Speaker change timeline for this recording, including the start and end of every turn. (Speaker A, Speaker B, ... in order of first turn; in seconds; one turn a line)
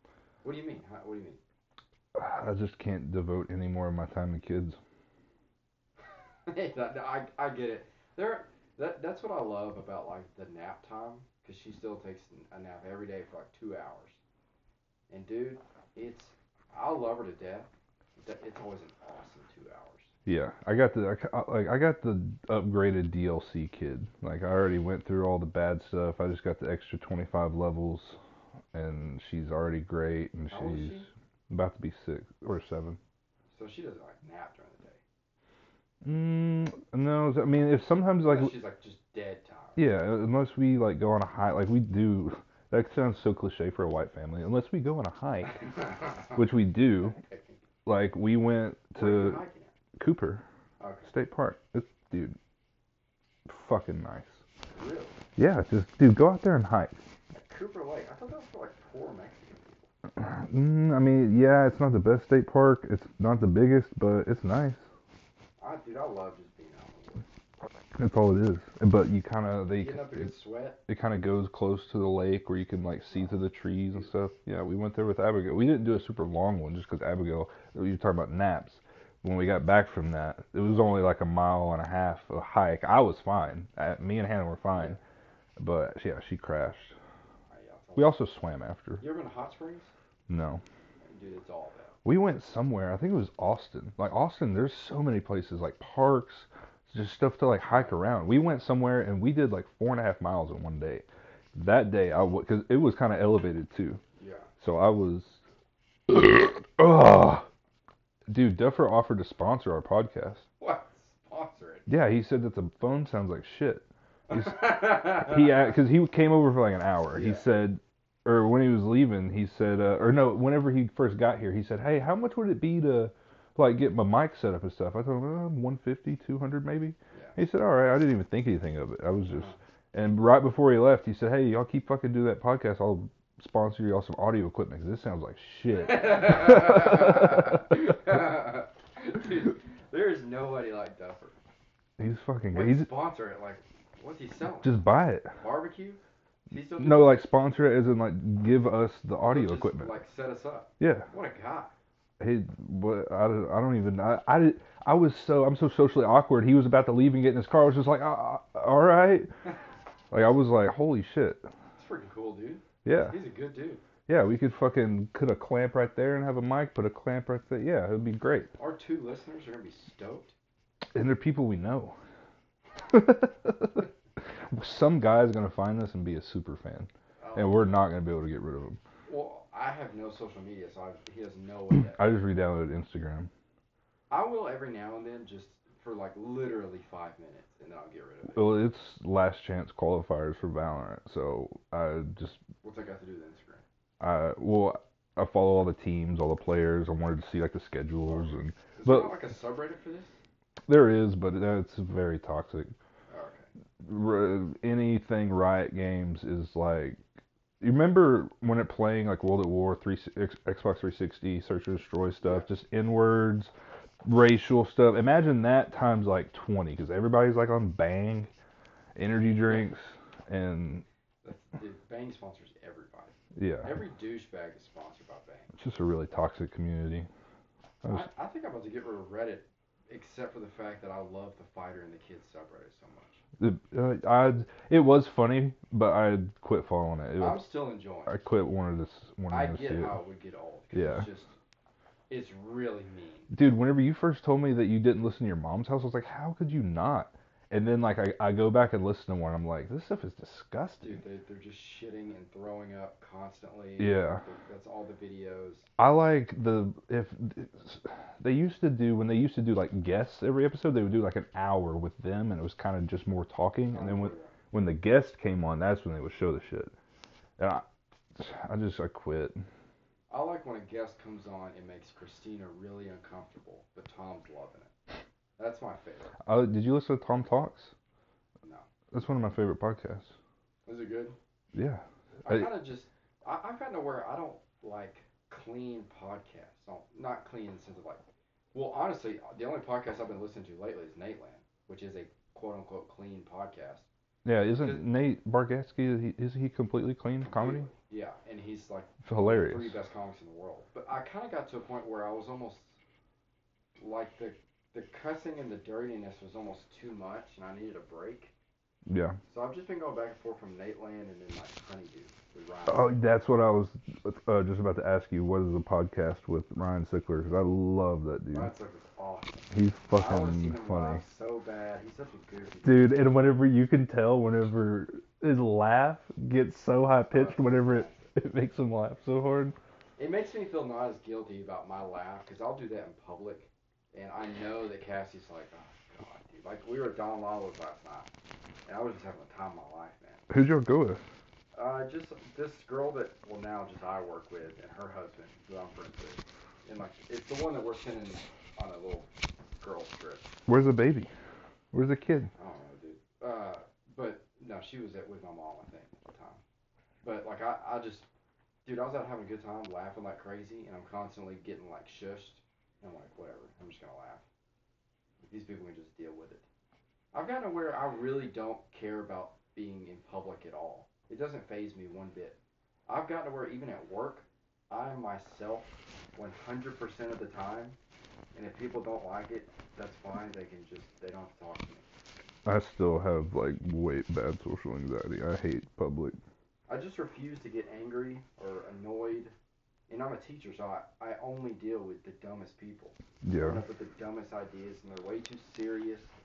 Speaker A: 0.4-1.4
Speaker B: 2.1-4.8
Speaker A: 6.5-14.2
Speaker A: 15.1-20.1
Speaker B: 20.3-28.2
Speaker B: 28.7-33.0
Speaker A: 30.5-31.1
Speaker A: 33.5-35.0
Speaker B: 36.0-38.5
Speaker A: 38.2-39.8
Speaker B: 39.8-45.6
Speaker A: 45.5-47.6
Speaker B: 46.4-47.2
Speaker B: 47.9-49.4
Speaker A: 49.0-49.7
Speaker B: 50.0-50.4
Speaker A: 50.8-51.1
Speaker B: 51.1-52.4
Speaker B: 53.5-54.4
Speaker A: 54.8-55.2
Speaker B: 55.4-57.0
Speaker A: 57.3-59.8
Speaker B: 60.2-64.8
Speaker A: 65.6-67.3
Speaker B: 68.0-70.3
Speaker A: 69.8-70.8
Speaker B: 70.9-85.0
Speaker A: 84.7-85.0
Speaker B: 85.6-86.9
Speaker A: 87.5-88.2
Speaker B: 88.0-89.0
Speaker A: 89.0-89.9
Speaker B: 90.3-90.6
Speaker A: 91.0-92.0
Speaker B: 92.0-104.0
Speaker A: 97.7-98.1
Speaker A: 104.2-104.5
Speaker B: 104.6-105.4
Speaker B: 106.1-107.5
Speaker B: 108.3-110.5
Speaker A: 110.6-111.9
Speaker B: 111.9-137.4
Speaker A: 114.3-115.7
Speaker A: 117.1-117.5
Speaker A: 127.1-127.4
Speaker A: 129.3-129.6
Speaker A: 135.7-141.4
Speaker B: 142.0-142.9
Speaker A: 142.5-144.8
Speaker B: 144.6-145.3
Speaker A: 145.4-147.2
Speaker B: 146.8-149.9
Speaker A: 149.3-151.7
Speaker B: 150.8-151.1
Speaker B: 152.2-159.3
Speaker B: 160.1-161.5
Speaker A: 161.8-163.8
Speaker B: 162.8-163.2
Speaker B: 164.1-168.5
Speaker A: 168.6-170.3
Speaker B: 170.9-172.0
Speaker B: 172.9-173.9
Speaker B: 174.5-178.8
Speaker A: 177.2-177.8
Speaker A: 179.1-182.2
Speaker B: 182.0-183.3
Speaker A: 184.1-188.6
Speaker B: 188.3-192.4
Speaker A: 192.6-193.6
Speaker B: 194.0-199.1
Speaker A: 198.1-200.2
Speaker B: 200.7-202.7
Speaker A: 203.1-203.5
Speaker B: 203.8-207.0
Speaker B: 207.6-213.5
Speaker A: 212.2-212.5
Speaker B: 214.1-218.3
Speaker B: 219.0-220.8
Speaker A: 219.3-219.7
Speaker A: 221.2-225.5
Speaker B: 223.4-223.8
Speaker B: 225.5-227.1
Speaker A: 227.8-233.2
Speaker B: 233.4-237.4
Speaker A: 237.2-238.2
Speaker B: 238.1-240.0
Speaker A: 239.3-241.4
Speaker B: 240.7-241.1
Speaker A: 242.1-243.3
Speaker B: 243.3-251.0
Speaker A: 250.8-255.7
Speaker B: 253.8-254.2
Speaker B: 255.8-266.7
Speaker A: 263.7-264.4
Speaker B: 267.4-267.6
Speaker B: 268.2-269.4
Speaker A: 270.1-274.7
Speaker A: 275.4-276.1
Speaker B: 276.2-277.7
Speaker B: 278.9-280.1
Speaker A: 280.7-281.2
Speaker B: 281.5-282.5
Speaker A: 282.2-288.0
Speaker A: 288.5-293.9
Speaker B: 294.2-297.7
Speaker A: 294.6-294.8
Speaker A: 297.2-302.8
Speaker B: 299.1-299.8
Speaker A: 303.8-308.3
Speaker B: 308.9-309.2
Speaker A: 309.3-313.0
Speaker B: 312.7-318.5
Speaker A: 318.3-322.9
Speaker B: 319.5-321.0
Speaker B: 322.6-329.6
Speaker A: 327.1-328.1
Speaker A: 330.0-338.1
Speaker A: 338.7-340.3
Speaker B: 340.3-341.0
Speaker A: 341.5-350.4
Speaker B: 350.5-351.1
Speaker B: 351.7-352.3
Speaker A: 352.4-356.4
Speaker A: 357.0-358.1
Speaker A: 358.6-364.2
Speaker A: 365.2-366.4
Speaker A: 367.1-377.8
Speaker A: 378.3-381.9
Speaker B: 382.5-386.2
Speaker A: 386.7-389.3
Speaker A: 389.9-396.1
Speaker B: 393.2-393.6